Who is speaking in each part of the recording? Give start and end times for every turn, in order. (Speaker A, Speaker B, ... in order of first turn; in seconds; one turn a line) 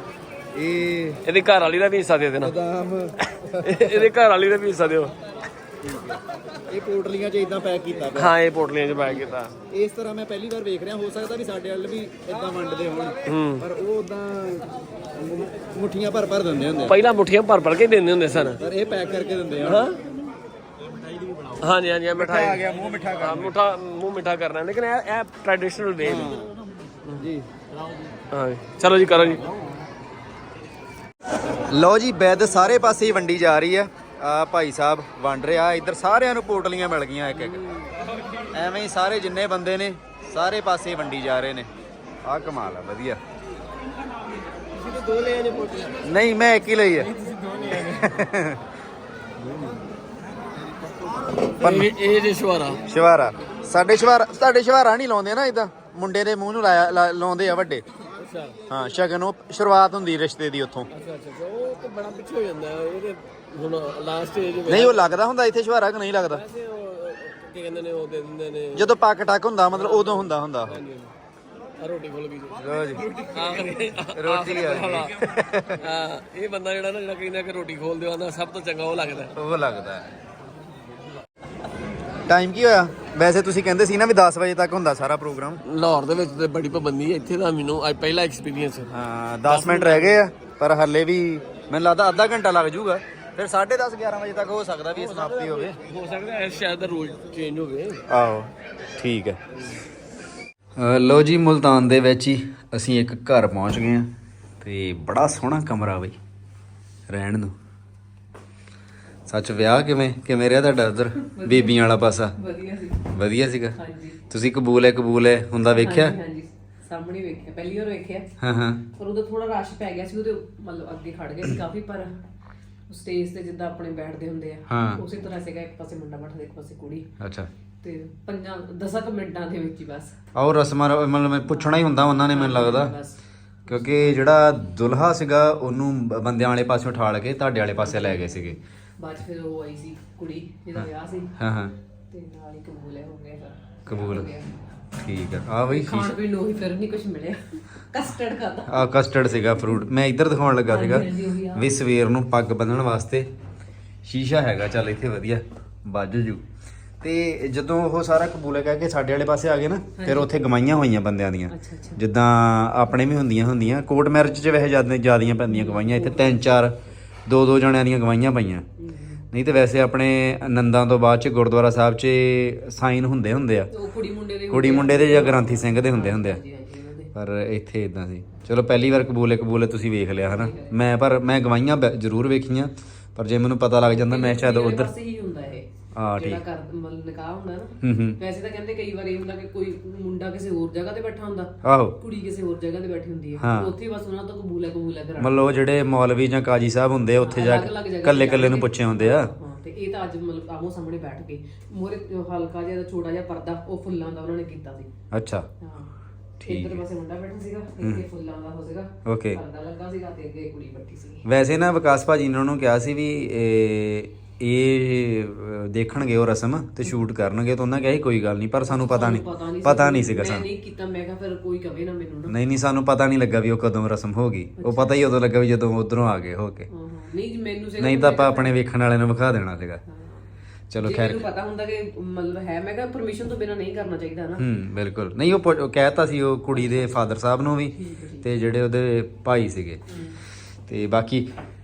Speaker A: 0.5-1.2
Speaker B: 1.2-2.5
Speaker A: 2.4-4.0
Speaker B: 3.6-5.1
Speaker A: 5.8-8.3
Speaker B: 8.1-9.5
Speaker A: 9.0-16.9
Speaker B: 13.3-13.6
Speaker B: 16.9-18.6
Speaker A: 18.6-19.9
Speaker B: 19.6-20.0
Speaker B: 21.6-22.6
Speaker A: 22.1-23.5
Speaker B: 23.2-26.3
Speaker A: 26.0-26.5
Speaker A: 27.1-27.5
Speaker B: 28.3-29.4
Speaker A: 31.7-37.6
Speaker A: 38.5-41.7
Speaker A: 42.2-43.2
Speaker B: 45.1-45.9
Speaker A: 46.0-47.1
Speaker A: 47.6-48.6
Speaker A: 51.6-51.9
Speaker B: 51.6-52.8
Speaker A: 52.9-57.9
Speaker B: 58.1-58.6
Speaker A: 58.7-60.9
Speaker B: 60.9-65.1
Speaker A: 64.7-66.4
Speaker B: 66.3-69.0
Speaker A: 68.7-70.8
Speaker B: 69.7-71.1
Speaker B: 71.8-79.3
Speaker A: 72.6-73.1
Speaker A: 74.1-75.8
Speaker A: 79.3-80.1
Speaker A: 82.3-85.6
Speaker B: 85.6-88.9
Speaker A: 88.9-95.8
Speaker B: 89.5-90.2
Speaker B: 95.1-98.0
Speaker A: 98.1-99.4
Speaker A: 100.8-106.2
Speaker A: 107.1-107.5
Speaker A: 109.3-112.3
Speaker C: 111.3-113.1
Speaker A: 113.1-113.8
Speaker C: 113.8-114.2
Speaker A: 114.3-116.2
Speaker C: 115.6-118.3
Speaker A: 118.4-118.8
Speaker C: 119.0-122.2
Speaker C: 122.9-127.1
Speaker A: 124.7-125.0
Speaker A: 127.2-127.5
Speaker C: 127.8-130.2
Speaker A: 130.3-132.9
Speaker C: 131.7-134.2
Speaker A: 133.7-138.6
Speaker C: 137.8-141.3
Speaker A: 140.8-141.7
Speaker C: 142.1-144.5
Speaker A: 143.8-144.3
Speaker A: 145.0-146.1
Speaker C: 145.6-148.9
Speaker A: 148.7-153.3
Speaker C: 150.7-151.7
Speaker A: 154.0-156.4
Speaker A: 157.0-168.6
Speaker C: 160.0-160.3
Speaker C: 161.5-162.0
Speaker C: 165.5-166.5
Speaker C: 168.8-169.2
Speaker A: 169.3-173.7
Speaker C: 173.7-177.1
Speaker A: 174.5-176.4
Speaker A: 177.1-184.9
Speaker C: 180.2-180.8
Speaker C: 183.9-195.4
Speaker A: 185.9-186.4
Speaker A: 187.8-188.2
Speaker A: 191.6-192.0
Speaker A: 193.4-193.7
Speaker A: 195.2-199.3
Speaker C: 197.2-204.9
Speaker A: 205.1-205.5
Speaker C: 205.6-205.9
Speaker A: 206.4-206.8
Speaker C: 206.4-211.2
Speaker A: 209.1-209.4
Speaker A: 211.2-220.5
Speaker C: 218.6-222.3
Speaker A: 222.3-226.7
Speaker C: 224.6-225.0
Speaker C: 226.7-228.5
Speaker A: 227.8-229.8
Speaker C: 229.9-230.3
Speaker A: 230.7-231.2
Speaker C: 230.8-234.4
Speaker A: 234.4-239.8
Speaker C: 236.5-237.2
Speaker C: 237.8-238.3
Speaker C: 239.9-240.2
Speaker A: 240.7-241.3